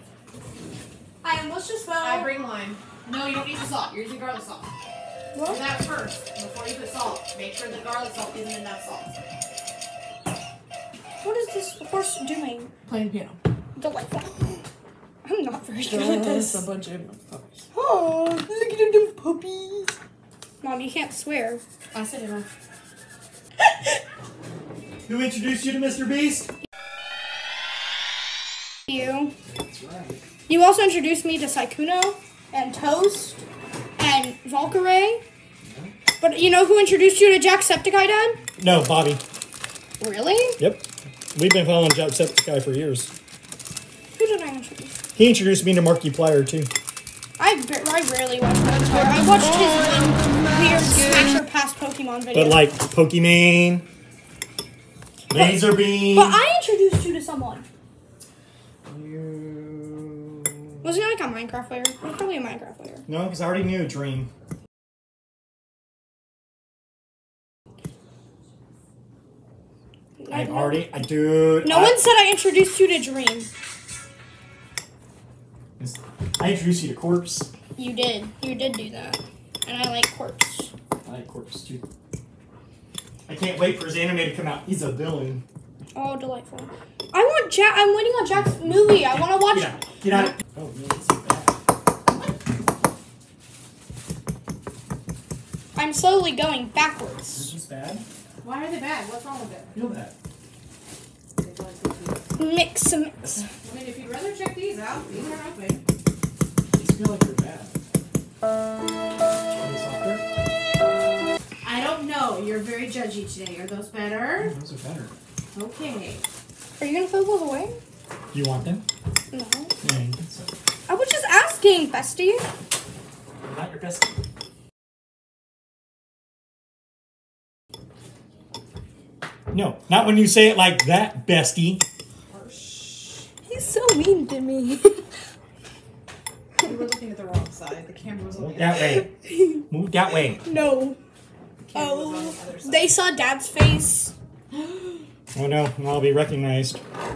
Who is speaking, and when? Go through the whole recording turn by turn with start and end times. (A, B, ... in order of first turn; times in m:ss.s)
0:01.2-0:02.3 A
0:02.0-0:04.7 B
0:05.3-0:05.6 A
0:05.4-0:09.2 B
0:11.2-0:12.7 A
0:12.9-0:13.4 B
0:13.8-0:14.6 A
0:15.2-0:16.7 A
0:15.9-0:17.6 B
0:17.7-0:19.9 A
0:20.6-0:21.6 A
0:21.9-0:22.5 B
0:25.0-0:26.5 C
0:28.9-0:29.3 A
0:29.5-0:30.2 C
0:30.5-0:33.4 A
0:34.0-0:35.2 A
0:35.6-0:35.9 C
0:36.2-0:38.4 A
0:38.6-0:39.2 C
0:40.0-0:40.6 B
0:40.6-0:43.1 C
0:44.2-0:45.0 A
0:45.2-0:46.7 C
0:47.4-0:52.6 A
0:52.3-0:53.9 C
0:55.3-0:56.4 C
0:55.3-0:57.7 A
0:58.9-1:00.9 C
1:00.8-1:03.0 A
1:03.1-1:04.3 C
1:10.2-1:10.9 A
1:10.3-1:12.0 C
1:11.6-1:13.5 A
1:15.8-1:17.5 C
1:17.8-1:20.7 A
1:21.0-1:21.8 C
1:23.3-1:25.4 C
1:25.9-1:29.8 A
1:28.4-1:31.6 C
1:35.7-1:37.5 A
1:37.3-1:38.0 C
1:38.4-1:39.7 B
1:39.7-1:40.1 C
1:41.4-1:42.3 B
1:42.4-1:43.3 A
1:43.6-1:45.8 B
1:46.7-1:47.8 C
1:49.5-1:50.2 C
1:51.6-1:54.5 B
1:54.4-1:55.1 C
1:55.5-1:56.2 B
1:56.8-1:57.8 A
1:58.3-1:58.8 C
1:59.3-1:59.7 A
1:59.8-2:00.5 C
2:00.9-2:02.4 A
2:03.4-2:04.2 C
2:09.5-2:11.8 C
2:12.3-2:13.3 B
2:13.5-2:15.0 A
2:16.6-2:19.0 B
2:18.4-2:19.1 C
2:19.0-2:19.7 A
2:19.7-2:20.4 C
2:20.4-2:21.0 A
2:21.7-2:22.9 B
2:21.7-2:24.1 A
2:24.5-2:25.0 B
2:25.3-2:26.8 C